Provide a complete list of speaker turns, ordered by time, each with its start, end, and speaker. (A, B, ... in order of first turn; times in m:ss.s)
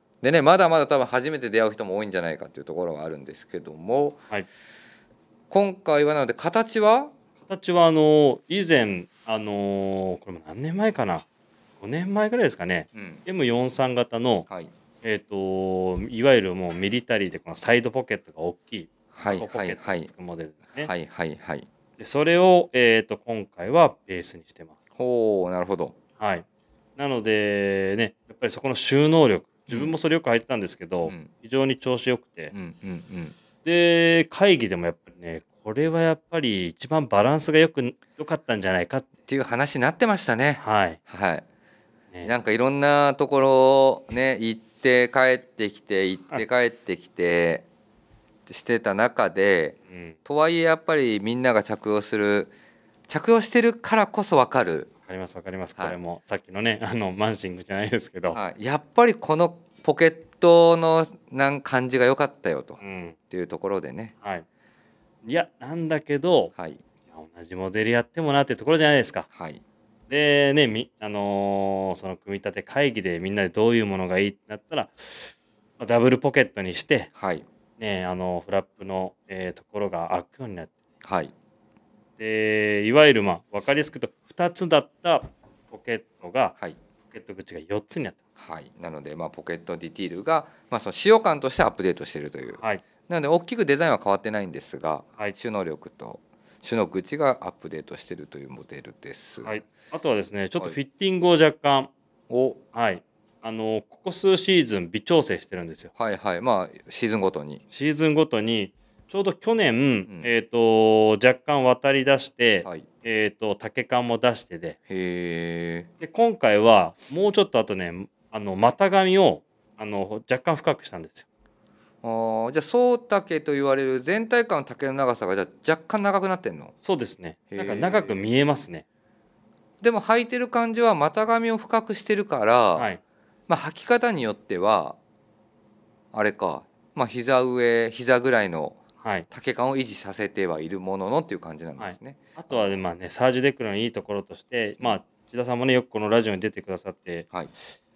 0:00.2-0:04.2 A
0:05.5-0:07.1 A
0:07.5-0:11.2 B
0:11.8-0:14.5 B
0:12.9-0:13.2 A
0:15.0-0:20.9 B
0:19.1-0:20.1 A
0:20.8-0:21.7 A
0:22.0-0:24.8 B
0:25.0-0:25.9 A
0:26.2-0:26.4 B
0:27.0-0:32.5 B
0:32.5-0:33.3 A
0:33.6-0:39.1 B
0:39.3-0:41.4 A
0:40.6-0:41.0 B
0:42.2-0:47.6 A
0:48.5-0:52.5 A
0:49.9-0:50.2 B
0:53.1-0:54.9 A
0:55.1-0:58.4 B
0:58.3-1:04.1 A
1:02.8-1:03.2 B
1:05.2-1:06.5 B
1:07.1-1:09.3 B
1:09.3-1:09.6 A
1:10.1-1:17.1 B
1:17.2-1:17.4 A
1:17.8-1:20.7 B
1:21.0-1:21.3 A
1:22.2-1:26.5 B
1:27.1-1:28.2 B
1:28.4-1:39.6 A
1:32.6-1:32.8 B
1:39.4-1:41.9 B
1:42.3-1:42.6 A
1:42.7-1:45.9 B
1:46.0-1:47.6 A
1:47.7-1:54.8 B
1:54.9-1:55.9 A
1:56.0-2:01.2 B
2:02.0-2:06.7 A
2:06.8-2:08.8 B
2:07.5-2:08.2 A
2:09.8-2:12.9 A
2:13.5-2:15.0 A
2:16.1-2:18.8 A
2:19.0-2:19.2 B
2:19.3-2:22.7 A
2:21.8-2:27.3 B